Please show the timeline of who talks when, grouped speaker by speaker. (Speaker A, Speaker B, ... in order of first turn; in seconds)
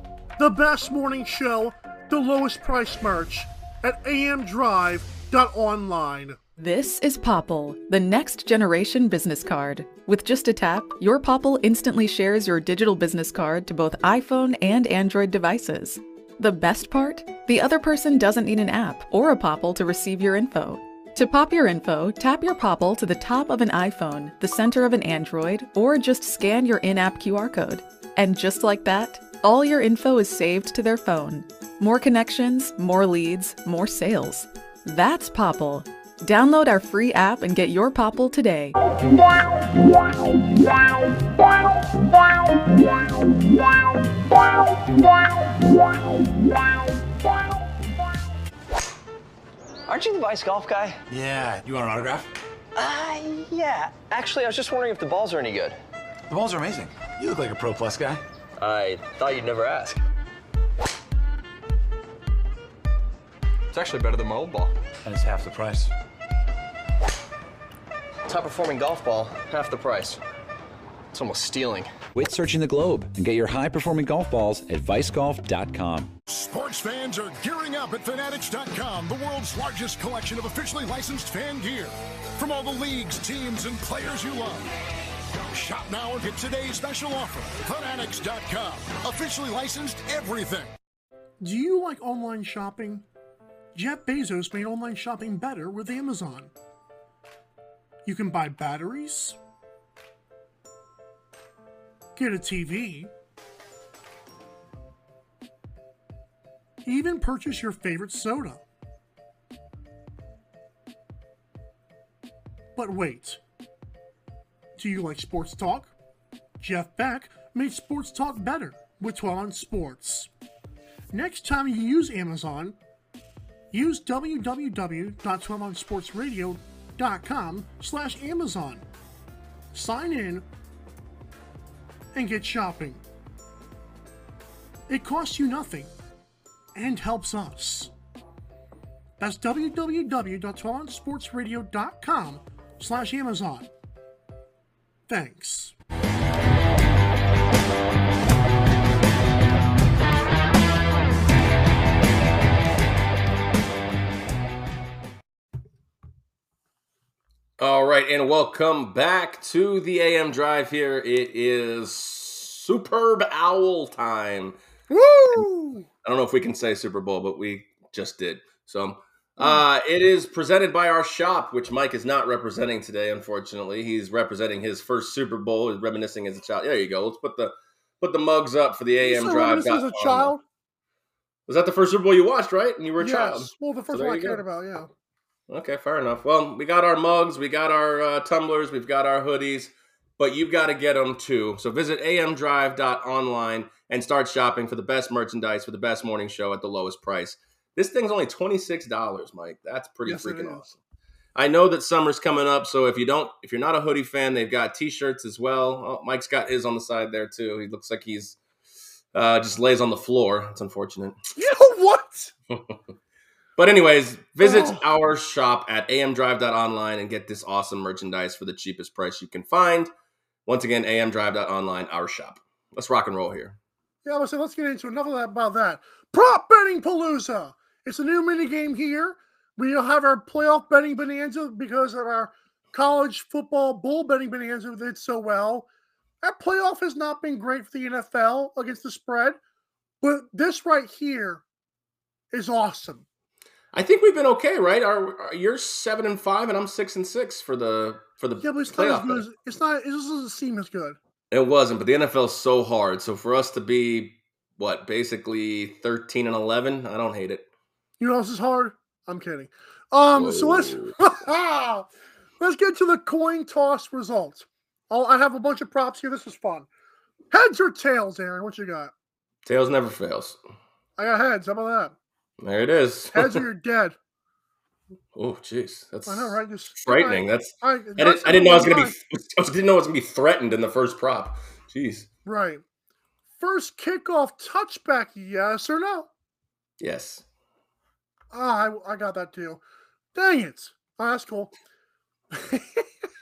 Speaker A: 0.4-6.4, 91.4-93.0, 93.7-96.5, 98.0-99.4, 102.2-103.1, 106.8-108.6, 112.8-113.4, 114.8-115.9, 116.6-120.3, 121.1-122.8, 123.7-128.8, 129.7-130.4, 132.1-133.0, 134.9-135.9, 136.7-137.9, 139.2-143.7, 145.1-145.7, 164.9-165.9, 179.0-180.4, 183.0-184.9, 200.1-200.6, 211.3-212.3, 214.4-214.8, 224.0-235.7, 236.2-239.4, 240.0-241.4, 242.3-243.0, 248.4-251.0, 258.0-261.9, 262.4-266.7, 267.3-268.9, 271.0-271.9, 273.1-273.9, 276.1-278.9, 282.2-282.6, 283.4-286.1, 288.3-289.6, 290.1-291.5, 292.3-292.9
Speaker B: 6.6-38.8
Speaker C: 49.9-51.0, 52.8-55.8, 58.6-60.0, 63.7-64.7, 68.3-70.2, 71.1-71.9
Speaker D: 51.1-52.3, 56.3-58.2, 65.0-65.9
Speaker E: 72.1-76.1
Speaker F: 76.3-84.7, 85.5-90.7
Speaker G: 157.6-164.6, 166.0-180.3, 181.5-184.4, 185.5-200.7, 201.3-208.4, 209.1-211.2, 213.6-219.9, 220.4-223.6, 243.7-249.2, 251.3-257.4, 260.1-260.9, 269.4-270.4, 272.4-273.4, 275.1-282.1, 286.8-287.2